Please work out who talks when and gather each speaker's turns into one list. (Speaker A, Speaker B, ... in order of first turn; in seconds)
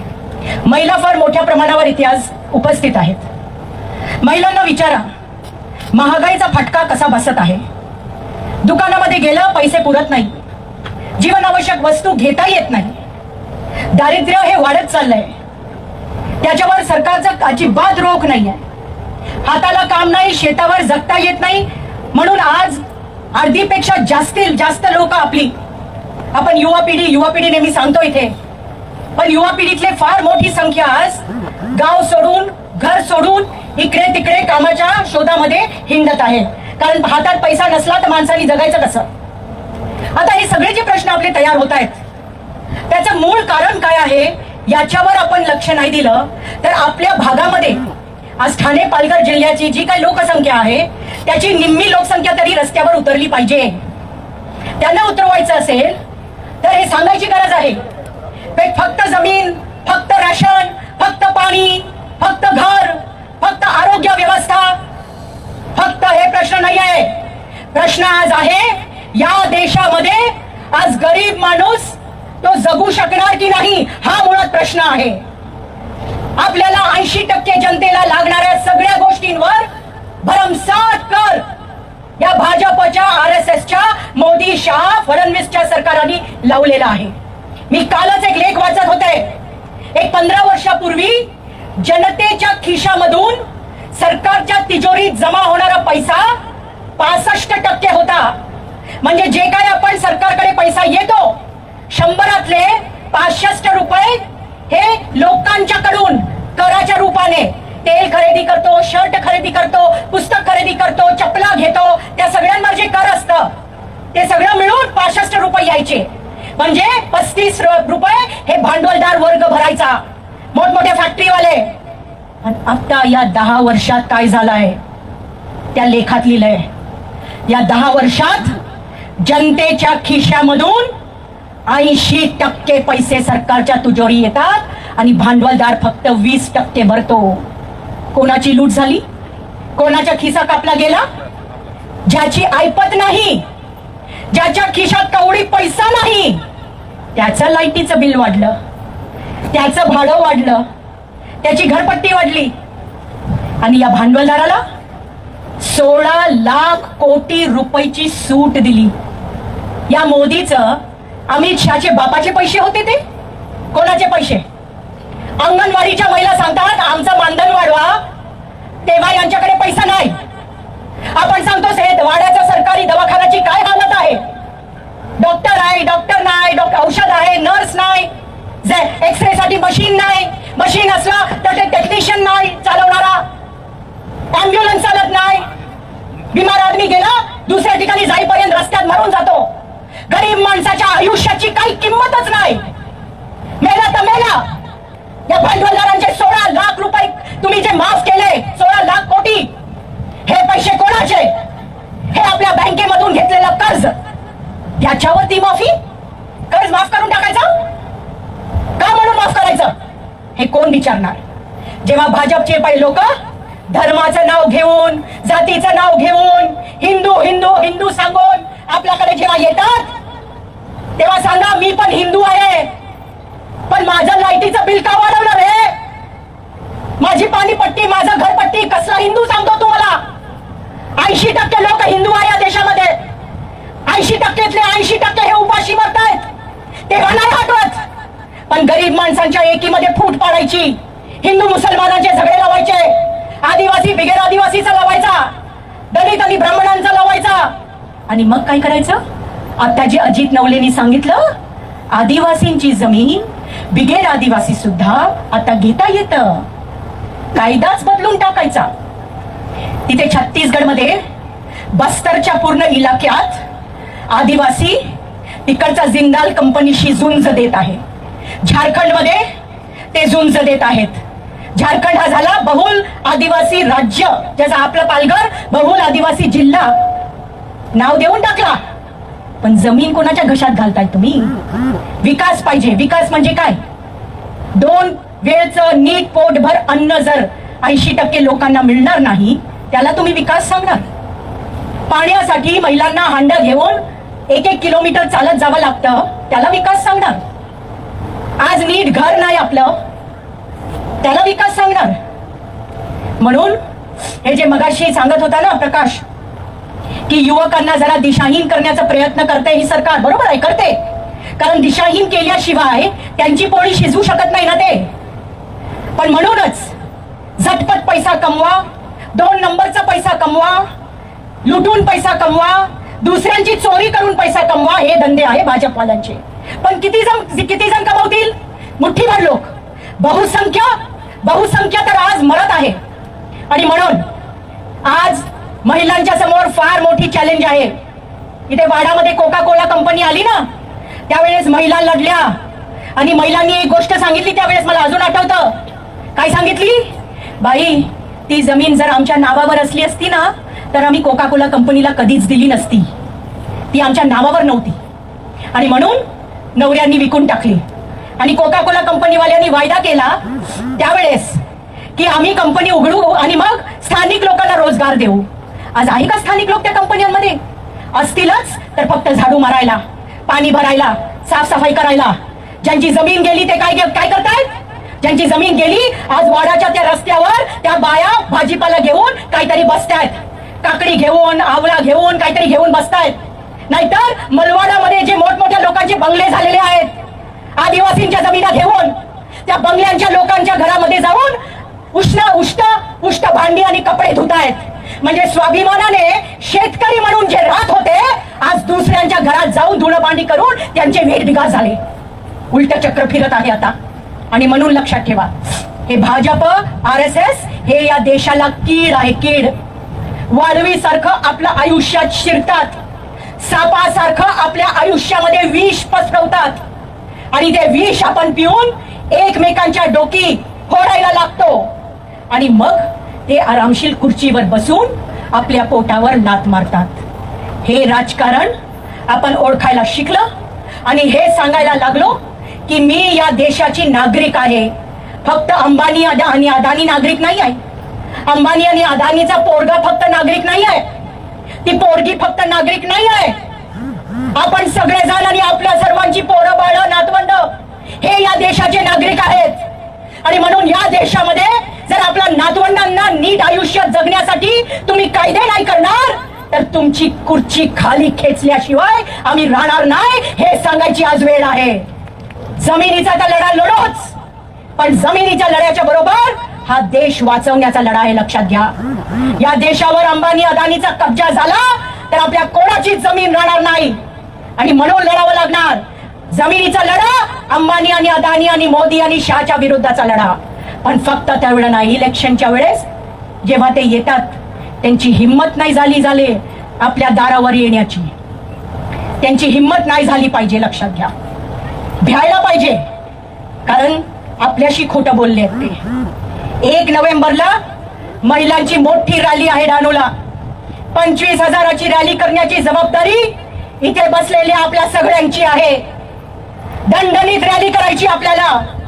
Speaker A: 0.7-3.2, 4.2-5.0, 5.9-7.6, 8.6-10.3, 11.2-13.0, 13.9-15.3, 16.4-18.6, 19.4-22.8, 23.3-25.5, 26.3-28.3, 29.2-39.1, 40.1-42.0, 42.9-47.8, 48.4-53.8, 54.8-56.0, 56.6-57.8, 58.5-64.8, 65.7-67.2, 67.7-75.2, 76.4-79.7, 80.2-81.4, 82.2-87.1, 87.7-89.3, 89.9-96.3, 97.0-98.3, 99.0-101.4, 101.9-113.5, 114.1-120.0, 120.5-121.7, 122.4-124.8, 125.7-126.7, 127.5-128.5, 129.2-130.9, 131.7-137.4, 138.1-139.0, 139.8-141.0, 142.1-143.4, 144.3-146.4, 147.2-148.5, 149.5-150.6, 151.4-152.5, 153.6-154.6, 155.6-158.9, 159.9-163.0, 163.7-164.4, 165.4-168.0, 168.8-170.2, 171.1-174.2, 175.2-178.1, 178.6-183.2, 184.3-185.5, 186.3-189.5, 190.1-192.6, 193.6-194.5, 195.3-199.5, 200.2-201.3, 202.1-203.9, 204.8-205.8, 206.5-207.5, 208.8-209.7, 210.3-211.2, 211.8-213.1, 213.7-219.9, 221.0-222.7, 223.7-225.8, 227.0-230.0, 231.0-232.9, 233.9-236.2, 236.9-237.8, 238.5-245.3, 245.9-247.5, 248.1-249.0, 249.6-251.3, 251.9-256.4, 257.3-258.7, 259.9-261.0, 261.7-263.4, 264.1-264.8, 265.4-267.8, 268.4-269.2, 269.9-271.0, 271.6-276.8, 277.8-278.6, 279.4-281.3, 282.0-283.6, 284.6-290.9, 291.9-297.2, 298.4-299.8, 301.0-301.9, 303.2-303.6, 304.2-306.0, 307.1-310.8, 311.4-314.9, 315.9-316.7, 317.4-320.6, 321.4-332.8, 333.5-334.0, 334.8-337.7, 338.5-340.5, 341.1-342.3, 342.9-345.6, 346.1-352.9, 353.7-354.8, 355.5-356.0, 356.6-357.6, 358.2-360.2, 360.8-361.4, 361.9-367.4, 367.9-383.2, 383.7-386.9, 387.6-391.4, 391.9-401.8, 402.5-403.8, 404.3-409.5, 410.3-412.8, 413.4-416.6, 417.3-421.7, 422.3-427.0, 427.6-428.5, 429.1-430.3, 430.9-434.7, 435.2-437.6, 438.2-440.8, 441.6-443.4, 444.3-447.5, 448.0-449.6, 450.2-461.8, 462.6-464.1, 464.8-468.7, 469.4-474.0, 474.6-482.9, 483.4-488.1, 489.2-491.1, 492.0-492.8, 493.6-495.8, 496.6-497.6, 498.2-500.1, 500.9-505.8, 506.9-508.6